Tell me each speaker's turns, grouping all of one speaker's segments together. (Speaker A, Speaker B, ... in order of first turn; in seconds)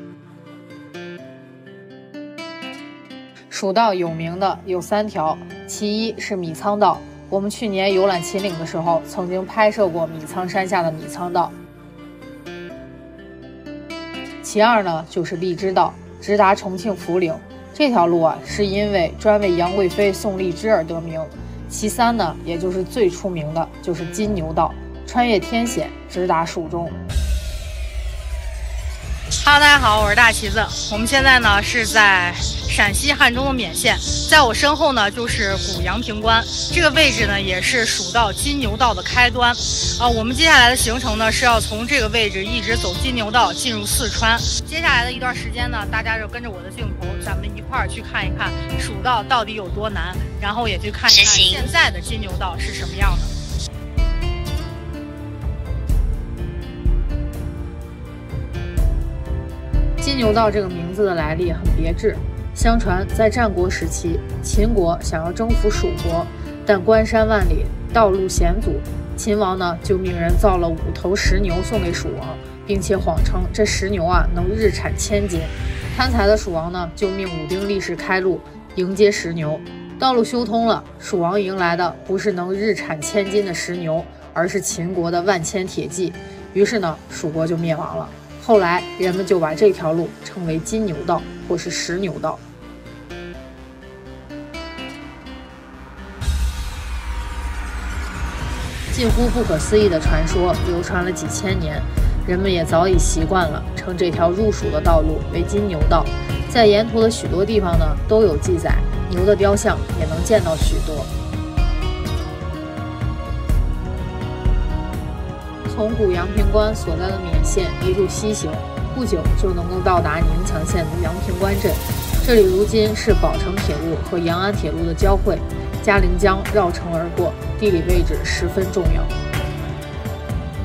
Speaker A: 3.5-11.5, 14.4-26.9, 29.5-34.0, 34.7-35.2, 35.9-39.5, 40.3-43.6, 44.6-52.8, 60.0-92.4, 98.9-111.1, 115.7-129.1
Speaker B: 29.4-41.4, 42.3-49.5, 50.1-53.3